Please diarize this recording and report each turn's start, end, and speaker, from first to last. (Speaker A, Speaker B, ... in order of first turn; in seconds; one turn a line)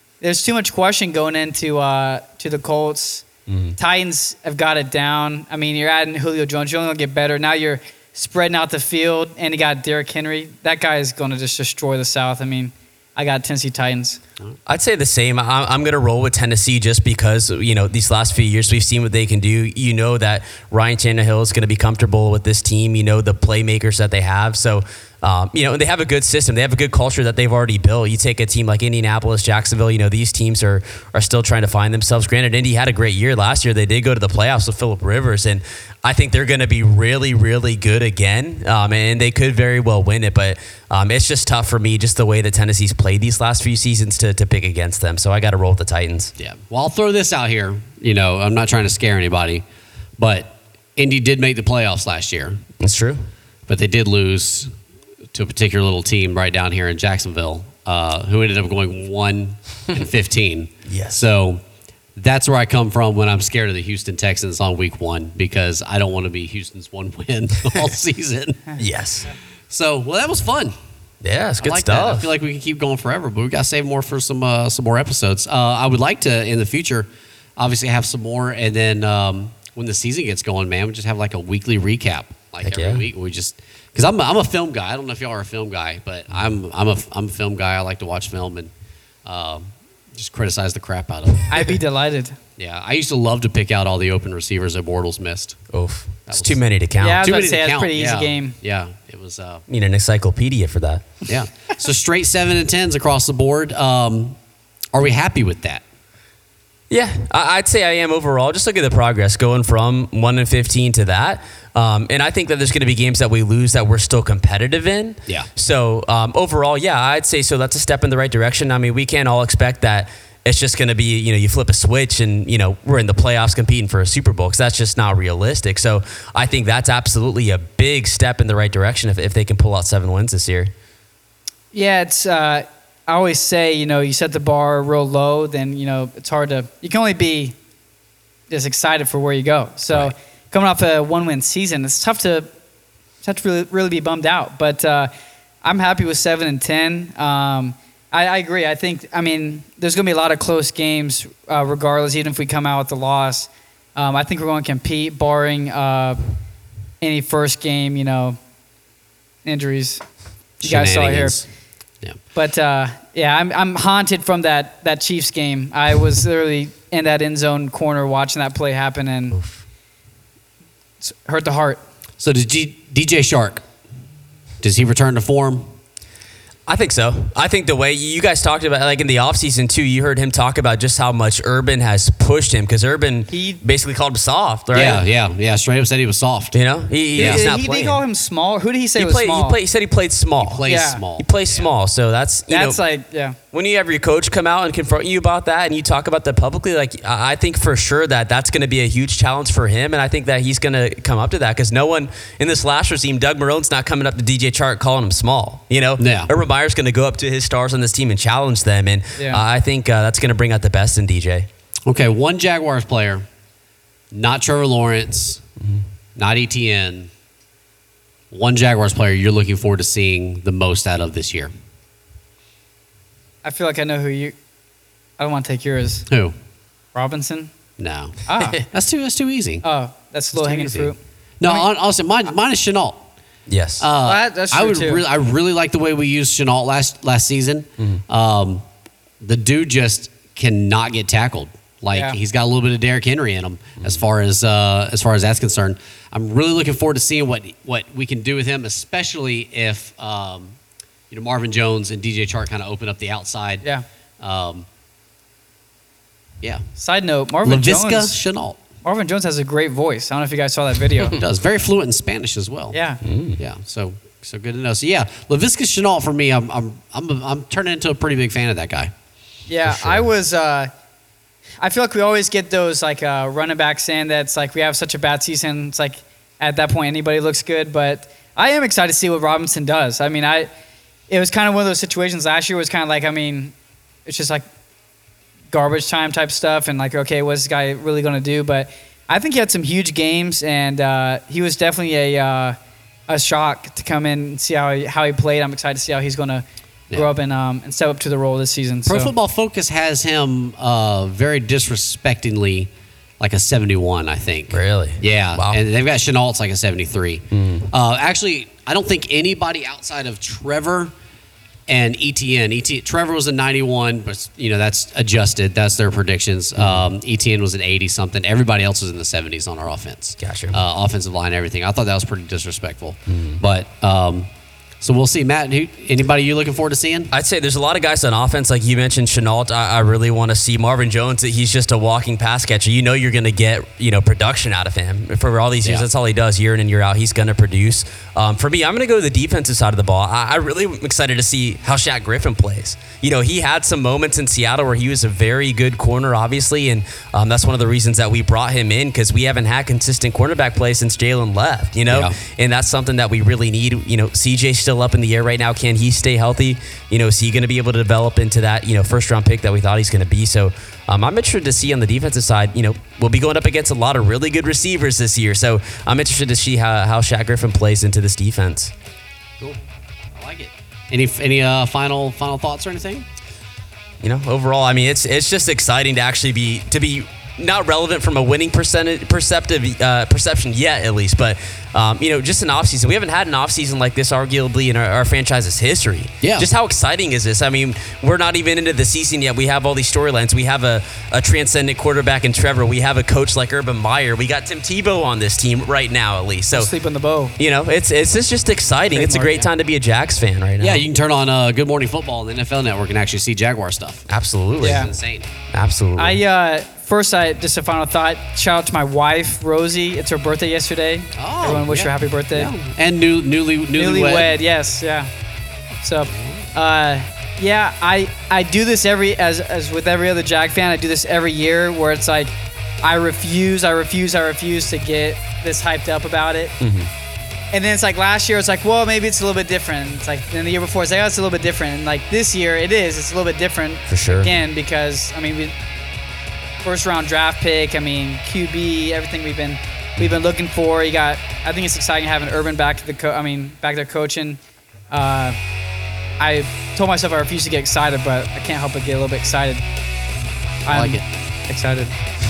Speaker A: 0.2-14.2
Speaker B: 3.5-3.8
Speaker B: 14.7-46.3
Speaker C: 46.4-49.6
Speaker C: 50.2-52.6
Speaker B: 52.8-53.2
Speaker C: 53.7-54.7
Speaker C: 55.3-61.6
Speaker B: 60.9-61.2
Speaker C: 62.2-68.7
Speaker B: 68.8-69.3
Speaker C: 69.7-70.8
Speaker B: 71.2-72.3
Speaker C: 71.6-88.7
Speaker B: 82.6-83.0
Speaker C: 89.2-91.7
Speaker A: 91.5-92.4
Speaker C: 92.6-95.6
Speaker B: 95.7-97.3
Speaker C: 96.3-96.6
Speaker A: 97.0-98.6
Speaker C: 97.2-99.6
Speaker B: 99.7-101.3
Speaker C: 101.3-104.4
Speaker C: 104.9-105.8
Speaker B: 106.9-130.7
Speaker A: 131.7-137.6
Speaker A: 138.5-142.5
Speaker A: 143.2-145.1
Speaker A: 145.6-156.2
Speaker A: 157.0-158.4
Speaker A: 159.4-160.0
Speaker C: 160.6-161.5
Speaker A: 160.6-161.4
Speaker A: 162.3-169.4
Speaker B: 169.3-169.6
Speaker A: 171.0-171.8
Speaker C: 172.2-173.6
Speaker C: 174.6-175.7
Speaker B: 176.7-185.0
Speaker A: 183.3-183.6
Speaker C: 184.7-186.6
Speaker B: 186.5-188.0
Speaker C: 187.2-187.5
Speaker A: 187.2-189.6
Speaker B: 189.0-190.7
Speaker C: 190.4-191.7
Speaker A: 190.7-191.0
Speaker B: 191.2-192.8
Speaker A: 192.5-193.4
Speaker B: 193.5-211.5
Speaker C: 206.0-206.3
Speaker A: 209.2-209.4
Speaker C: 211.9-213.3
Speaker C: 214.1-215.4
Speaker C: 216.2-217.1
Speaker C: 218.3-221.5
Speaker A: 223.4-224.3
Speaker A: 225.2-226.1
Speaker C: 226.1-226.3
Speaker A: 226.9-227.5
Speaker C: 227.8-229.6
Speaker A: 228.3-228.6
Speaker A: 229.6-231.7
Speaker C: 230.4-233.1
Speaker B: 233.5-233.9
Speaker C: 233.8-238.6
Speaker A: 234.0-235.0
Speaker C: 239.2-250.6
Speaker C: 251.1-253.7
Speaker C: 254.2-254.7
Speaker A: 256.8-258.2
Speaker C: 257.4-258.6
Speaker A: 258.8-261.2
Speaker C: 261.1-262.8
Speaker A: 262.7-263.0
Speaker B: 263.0-263.4
Speaker C: 263.4-268.9
Speaker A: 269.5-270.7
Speaker B: 269.7-270.0
Speaker A: 271.6-280.5
Speaker A: 281.1-283.5
Speaker A: 284.1-284.4
Speaker A: 285.5-292.6
Speaker A: 293.1-299.1
Speaker C: 298.9-310.9
Speaker B: 304.5-305.6
Speaker B: 307.3-307.7
Speaker C: 311.7-324.3
Speaker B: 316.6-316.9
Speaker B: 320.2-320.6
Speaker B: 323.1-323.4
Speaker C: 324.8-327.1
Speaker B: 327.1-368.7
Speaker C: 351.9-352.2
Speaker C: 370.1-373.1
Speaker B: 374.0-396.7
Speaker C: 386.2-386.5
Speaker A: 396.5-397.4
Speaker B: 397.4-400.9
Speaker A: 398.9-399.5
Speaker C: 400.6-404.1
Speaker B: 404.1-404.9
Speaker C: 404.6-405.3
Speaker A: 404.6-404.9
Speaker B: 405.5-406.2
Speaker A: 406.0-412.5
Speaker C: 411.2-414.4
Speaker A: 413.8-415.1
Speaker A: 415.8-426.6
Speaker B: 426.6-426.9
Speaker A: 427.5-435.5
Speaker B: 433.9-434.4
Speaker A: 436.6-444.4
Speaker A: 444.9-445.4
Speaker A: 446.2-449.6
Speaker A: 450.7-451.9
Speaker C: 450.7-451.0